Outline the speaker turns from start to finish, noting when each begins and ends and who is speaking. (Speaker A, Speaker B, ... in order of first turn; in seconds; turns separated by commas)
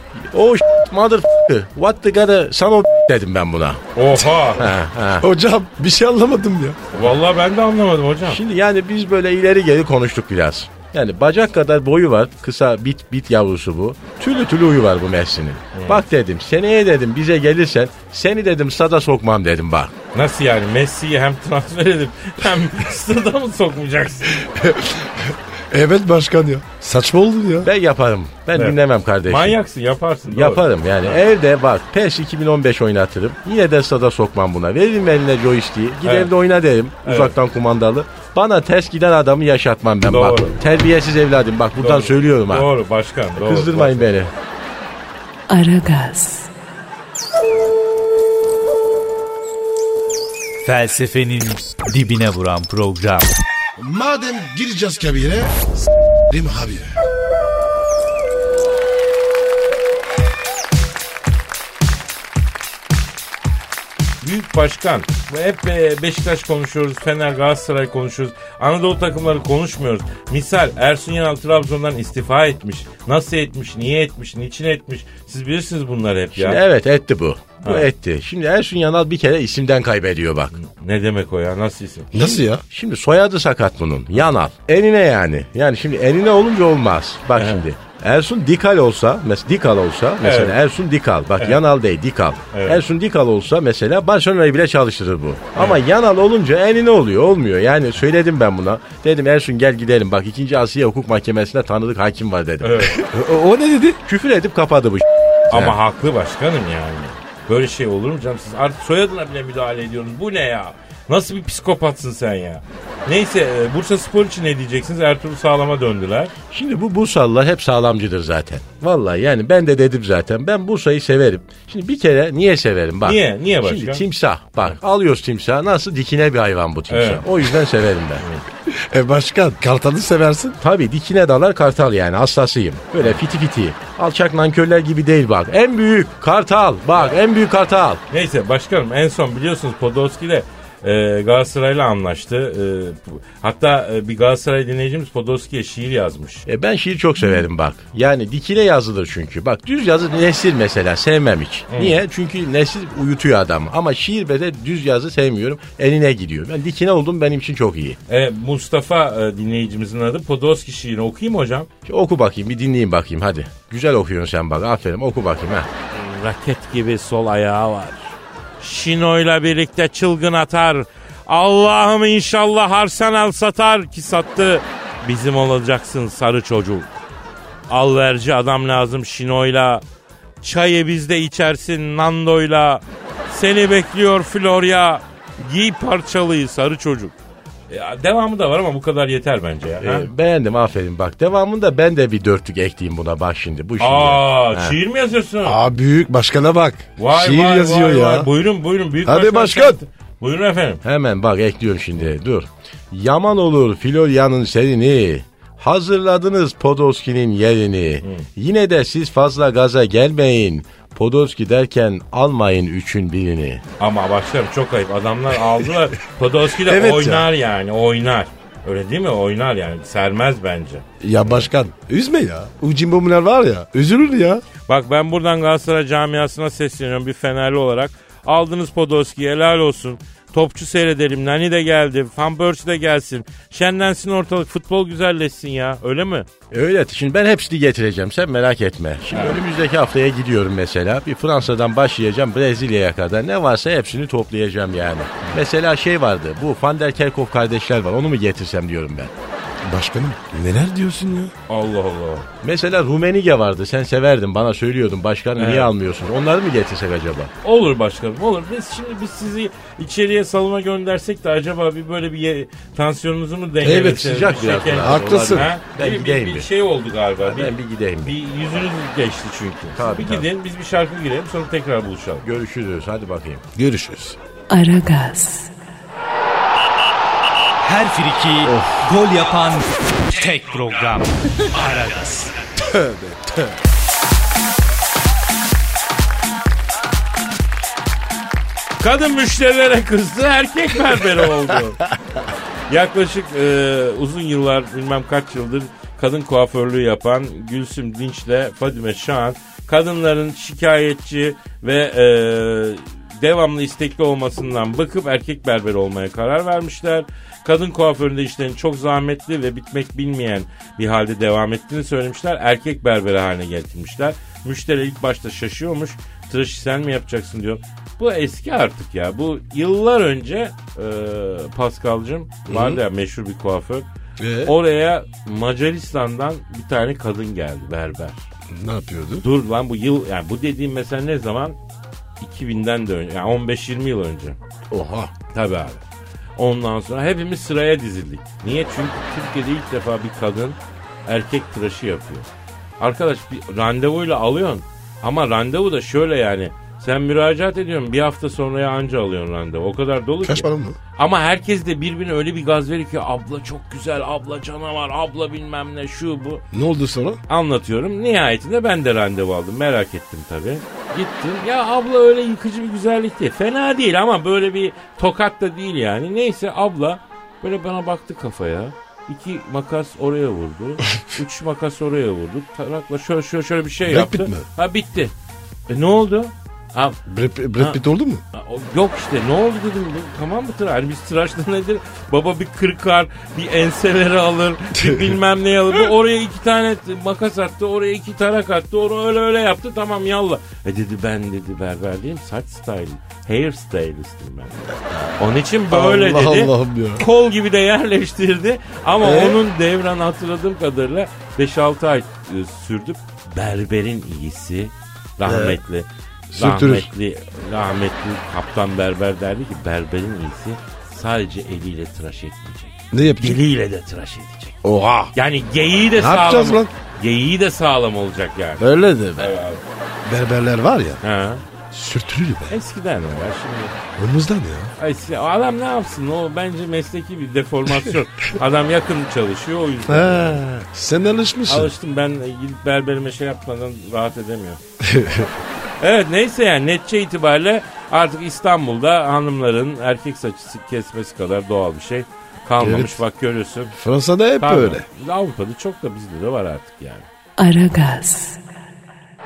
Speaker A: 0.3-3.8, Speaker B: 3.9-4.7, Speaker A: 4.6-5.2, Speaker C: 5.2-6.8, Speaker B: 6.9-8.4, Speaker A: 8.3-19.9, Speaker B: 15.7-16.0, Speaker B: 20.1-24.4, Speaker C: 24.3-27.7, Speaker A: 27.6-29.6, Speaker B: 28.5-31.2, Speaker A: 30.3-42.7, Speaker B: 36.0-36.3, Speaker B: 37.0-37.4, Speaker B: 40.0-40.6, Speaker B: 41.8-44.1, Speaker A: 43.3-44.3, Speaker D: 45.5-46.5, Speaker E: 50.6-53.3, Speaker C: 53.8-55.6, Speaker C: 56.3-56.9, Speaker B: 64.2-76.6, Speaker A: 76.3-80.5, Speaker B: 77.6-77.9, Speaker B: 80.5-82.1, Speaker C: 82.1-82.6, Speaker A: 82.7-102.8, Speaker B: 87.4-87.6, Speaker B: 90.2-90.5, Speaker B: 92.5-92.8, Speaker B: 95.5-95.8, Speaker B: 102.6-103.0, Speaker C: 103.0-104.0, Speaker A: 104.0-105.8, Speaker B: 105.5-116.3, Speaker A: 116.5-128.2, Speaker B: 123.0-124.0, Speaker B: 126.9-127.2, Speaker C: 128.7-130.6, Speaker A: 130.6-138.0, Speaker B: 138.1-146.4, Speaker A: 146.5-158.0, Speaker B: 151.7-152.0, Speaker B: 158.1-161.7, Speaker A: 161.8-165.7, Speaker B: 165.9-177.0, Speaker B: 177.7-179.8, Speaker B: 180.4-187.1, Speaker B: 187.7-190.1, Speaker A: 189.8-194.8, Speaker B: 193.8-195.6, Speaker C: 195.4-198.3, Speaker B: 197.0-200.8, Speaker C: 199.0-199.8, Speaker A: 200.8-213.6, Speaker B: 208.0-208.3, Speaker B: 213.8-221.5, Speaker C: 216.5-217.3, Speaker C: 221.0-224.4, Speaker B: 224.7-236.3, Speaker A: 236.5-249.1, Speaker B: 239.1-239.4, Speaker C: 249.6-251.3, Speaker B: 251.5-252.3, Speaker A: 252.4-257.3, Speaker B: 255.3-255.7, Speaker B: 257.4-272.2, Speaker A: 263.6-266.5, Speaker C: 264.8-265.5, Speaker A: 267.2-268.1, Speaker A: 269.7-270.3, Speaker A: 272.2-273.4, Speaker C: 273.5-274.2, Speaker D: 274.5-275.5, Speaker E: 277.6-282.4, Speaker C: 278.4-278.8, Speaker C: 282.6-283.5, Speaker B: 288.8-291.9, Speaker B: 292.7-323.9, Speaker C: 322.5-322.8, Speaker C: 324.2-324.5, Speaker B: 324.4-328.2, Speaker C: 328.5-329.2, Speaker B: 329.2-331.6, Speaker B: 332.2-334.4, Speaker C: 334.7-335.1, Speaker B: 335.3-335.8, Speaker B: 336.4-342.3, Speaker B: 342.8-356.4, Speaker C: 350.2-350.8, Speaker C: 356.5-357.2, Speaker B: 357.3-375.1, Speaker C: 373.8-374.4, Speaker B: 375.7-377.0, Speaker C: 377.1-378.2, Speaker B: 377.6-377.8, Speaker B: 378.3-394.6, Speaker C: 394.7-397.0, Speaker B: 395.2-414.6, Speaker C: 399.0-399.4, Speaker C: 405.2-405.6, Speaker C: 406.3-406.9, Speaker C: 412.9-413.4, Speaker C: 414.6-415.1, Speaker B: 415.1-419.6, Speaker C: 415.9-416.7, Speaker C: 418.6-419.3, Speaker C: 420.0-421.0, Speaker B: 421.0-421.4, Speaker C: 421.7-422.6, Speaker B: 422.5-423.8, Speaker C: 424.0-424.7, Speaker B: 424.8-430.4, Speaker C: 429.9-431.7, Speaker B: 431.5-434.6, Speaker C: 434.8-435.3, Speaker B: 435.8-443.7, Speaker C: 442.6-443.0, Speaker C: 443.7-444.8, Speaker B: 444.4-447.1, Speaker D: 447.4-448.4